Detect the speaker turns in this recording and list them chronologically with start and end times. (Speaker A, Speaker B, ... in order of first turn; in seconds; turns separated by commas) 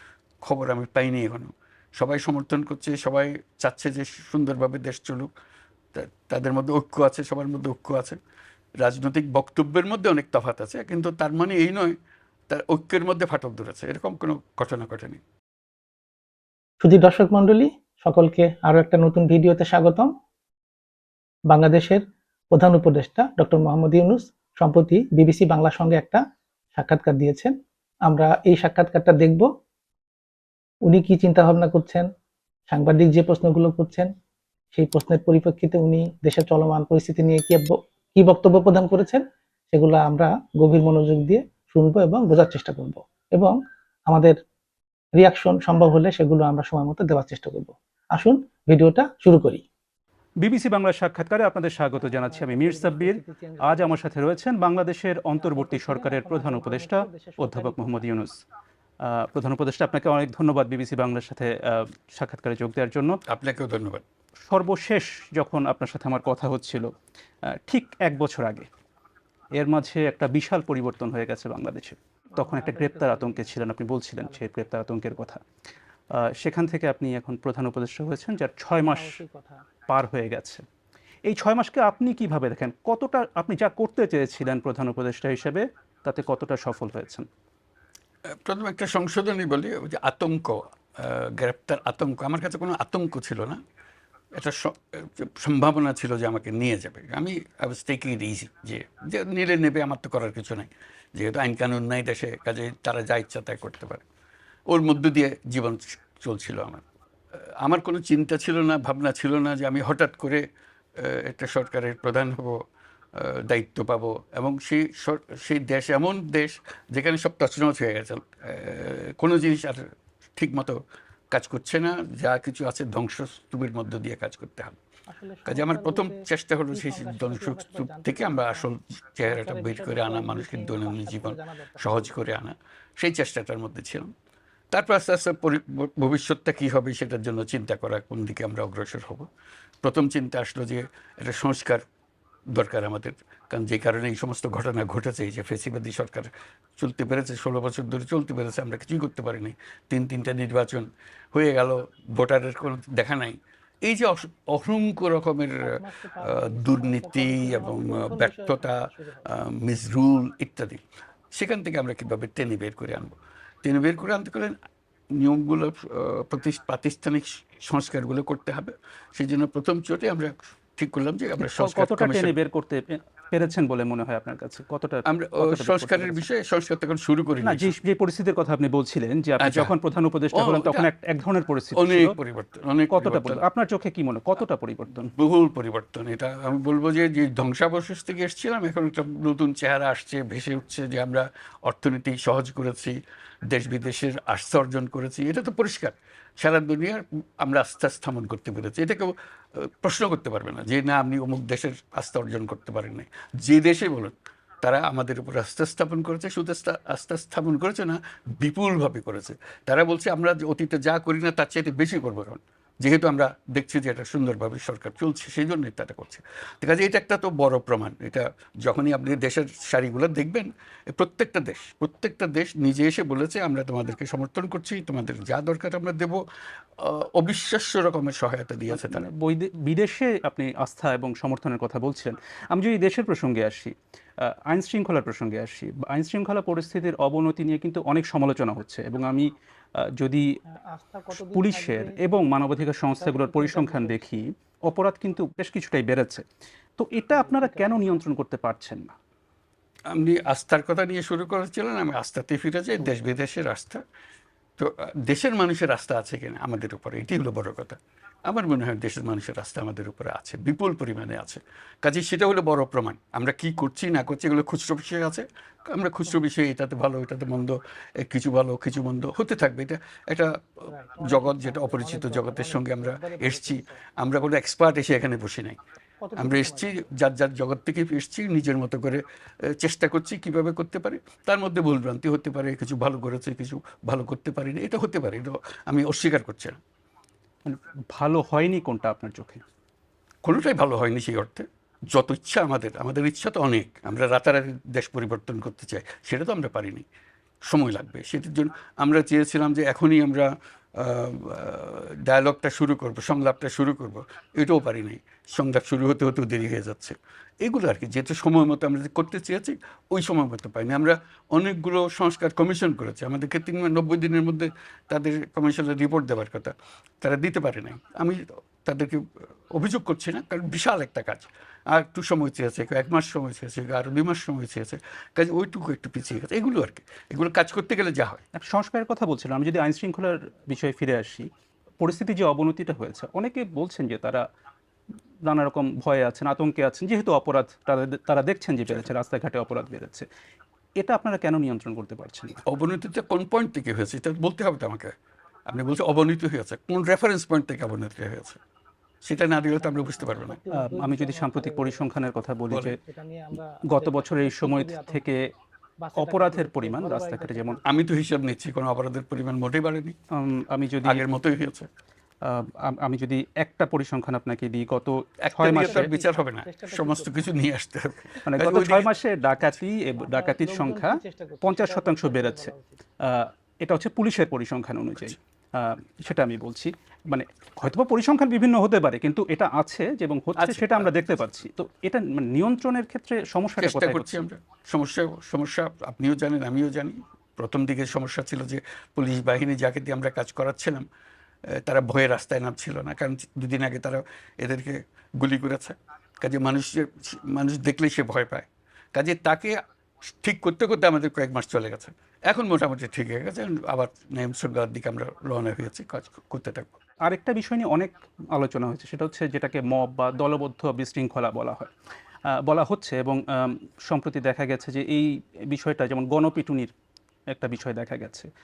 Speaker A: 0.4-5.3, Speaker A: 5.9-8.2, Speaker A: 8.8-11.9, Speaker A: 12.5-15.2, Speaker B: 16.8-20.1, Speaker B: 21.5-26.2, Speaker B: 26.7-27.5, Speaker B: 28.1-29.5, Speaker B: 30.9-32.1, Speaker B: 32.7-34.1, Speaker B: 34.7-43.6, Speaker B: 44.1-44.4, Speaker B: 45.1-49.6, Speaker C: 50.4-58.4, Speaker B: 52.0-54.1, Speaker B: 55.4-58.1, Speaker C: 59.0-63.2, Speaker A: 63.3-64.0, Speaker C: 64.5-66.9, Speaker C: 67.5-68.7, Speaker C: 69.5-75.4, Speaker B: 72.3-73.6, Speaker B: 74.2-74.5, Speaker C: 76.2-79.2, Speaker B: 78.9-79.6, Speaker C: 79.9-80.6, Speaker C: 81.3-87.3, Speaker A: 88.5-93.6, Speaker A: 94.3-104.0, Speaker A: 104.7-106.8, Speaker A: 107.6-110.4, Speaker A: 111.0-112.6, Speaker A: 113.2-119.8, Speaker A: 120.4-124.8, Speaker B: 125.1-128.7, Speaker A: 125.5-134.1, Speaker B: 129.3-132.1, Speaker A: 134.7-139.3, Speaker A: 139.8-141.8, Speaker A: 142.5-160.8, Speaker B: 155.6-159.3, Speaker A: 161.3-164.6, Speaker A: 165.1-172.3, Speaker C: 171.4-176.2, Speaker A: 175.1-177.7, Speaker C: 177.4-182.1, Speaker A: 179.4-179.7, Speaker A: 180.3-180.9, Speaker A: 181.7-183.4, Speaker C: 182.9-185.1, Speaker A: 185.1-193.0, Speaker A: 193.5-226.2, Speaker A: 226.8-229.1, Speaker C: 228.7-239.3, Speaker C: 240.0-240.2, Speaker B: 240.4-242.0, Speaker C: 241.1-246.2, Speaker B: 243.0-244.2, Speaker C: 246.8-248.9, Speaker B: 247.1-247.8, Speaker A: 249.9-253.8, Speaker A: 254.6-270.4, Speaker B: 270.7-273.8, Speaker A: 271.0-275.6, Speaker B: 276.0-276.7, Speaker A: 276.2-286.6, Speaker C: 287.4-289.4, Speaker A: 290.2-296.9, Speaker A: 297.5-328.2, Speaker C: 328.4-331.3, Speaker C: 331.8-334.2, Speaker C: 335.2-340.1, Speaker C: 340.8-342.4, Speaker A: 342.4-344.9, Speaker A: 345.5-348.4, Speaker A: 349.0-350.4, Speaker B: 349.6-351.9, Speaker C: 350.5-352.8, Speaker A: 352.5-352.7, Speaker B: 352.8-355.1, Speaker C: 353.6-355.3, Speaker B: 355.8-357.7, Speaker C: 355.9-357.6, Speaker A: 357.6-360.0, Speaker C: 360.1-361.0, Speaker A: 360.8-361.7, Speaker C: 362.2-365.9, Speaker A: 365.2-368.9, Speaker B: 365.5-367.3, Speaker C: 368.2-384.2, Speaker B: 370.0-372.8, Speaker A: 380.4-380.9, Speaker A: 383.6-390.9, Speaker A: 391.6-399.6, Speaker A: 400.1-406.7, Speaker C: 407.1-411.7, Speaker C: 412.4-416.7, Speaker C: 417.3-418.3